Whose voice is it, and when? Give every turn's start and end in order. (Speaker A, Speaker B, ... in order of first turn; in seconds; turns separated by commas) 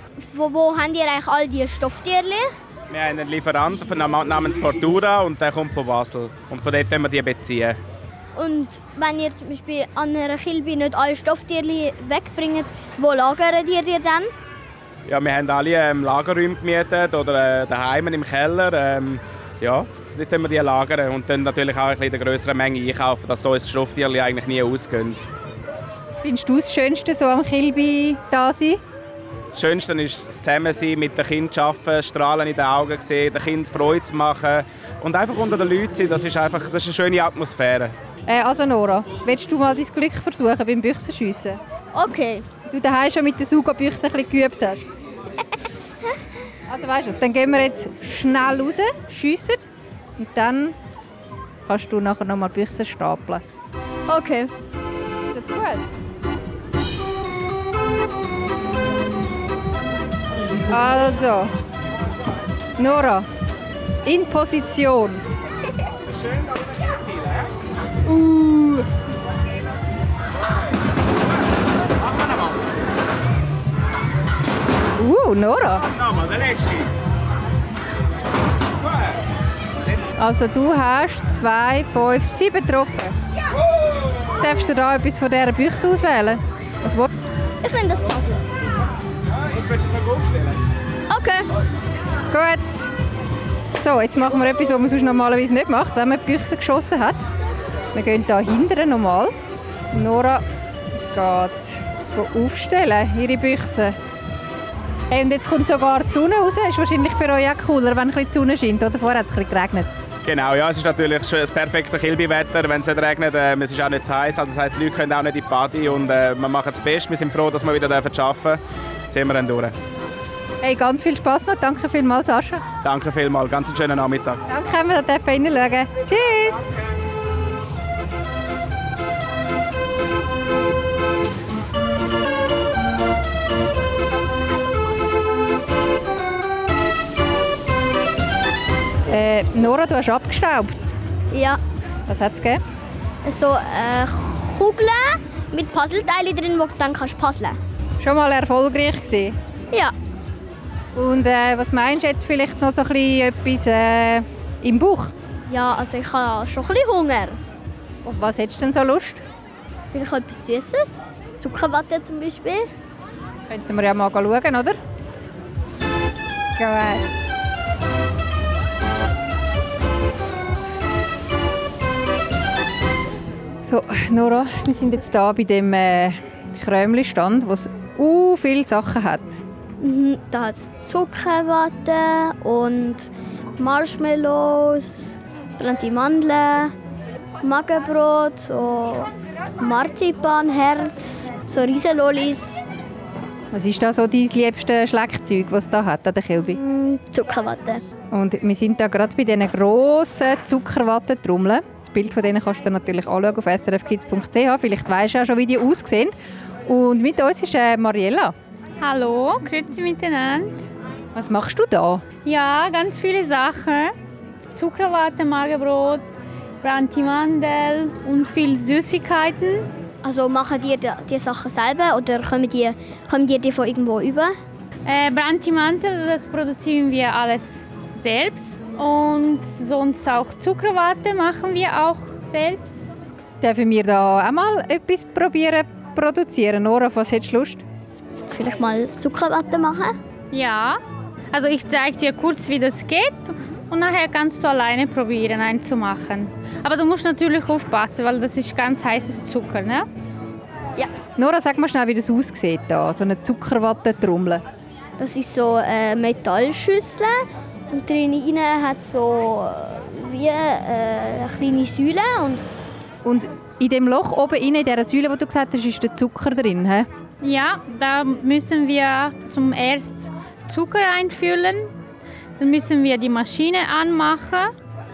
Speaker A: 0.2-2.5, Speaker B: 2.9-7.8, Speaker A: 8.3-14.3, Speaker B: 15.1-25.2, Speaker C: 26.1-28.8, Speaker B: 29.5-37.9, Speaker C: 38.3-41.6, Speaker A: 41.9-42.4, Speaker C: 42.7-44.9, Speaker A: 45.4-46.2, Speaker C: 46.7-49.7, Speaker C: 50.2-50.8, Speaker C: 51.6-53.4, Speaker A: 54.1-54.5, Speaker C: 55.3-55.9, Speaker C: 60.7-61.5, Speaker C: 62.8-63.3, Speaker C: 64.0-65.2, Speaker B: 66.1-67.5, Speaker C: 68.0-68.9, Speaker B: 72.1-72.5, Speaker C: 75.0-75.9, Speaker B: 76.0-76.8, Speaker C: 80.2-83.1, Speaker C: 84.3-87.1, Speaker A: 87.6-88.4, Speaker B: 89.5-90.6, Speaker A: 91.1-91.5, Speaker C: 92.3-92.9, Speaker C: 93.8-97.2, Speaker C: 97.9-99.4, Speaker C: 99.9-100.4, Speaker C: 101.1-104.0, Speaker C: 105.1-109.9, Speaker B: 110.2-119.7, Speaker C: 120.6-122.6, Speaker B: 122.8-124.4, Speaker C: 124.5-126.7, Speaker C: 139.1-140.9, Speaker A: 141.3-141.6, Speaker C: 142.1-142.6, Speaker A: 143.2-147.6, Speaker C: 148.0-149.3, Speaker C: 150.9-155.1, Speaker A: 155.4-157.4, Speaker C: 158.0-159.2, Speaker A: 159.9-162.7, Speaker C: 163.5-164.8, Speaker C: 166.6-167.0, Speaker C: 173.6-179.4, Speaker A: 179.8-186.7, Speaker A: 187.4-192.6, Speaker C: 193.5-196.6, Speaker A: 196.5-197.8, Speaker C: 198.1-206.1, Speaker C: 206.7-208.3, Speaker D: 208.8-210.7, Speaker C: 211.1-212.0, Speaker D: 212.2-213.9, Speaker D: 214.5-216.0, Speaker D: 216.6-219.7, Speaker A: 220.0-224.3, Speaker D: 224.8-232.8, Speaker C: 233.4-237.6, Speaker A: 238.3-240.0, Speaker D: 240.3-240.8, Speaker D: 241.3-249.9, Speaker C: 251.2-254.4, Speaker A: 255.0-262.4, Speaker C: 263.0-266.9, Speaker D: 267.2-271.7, Speaker D: 272.4-274.5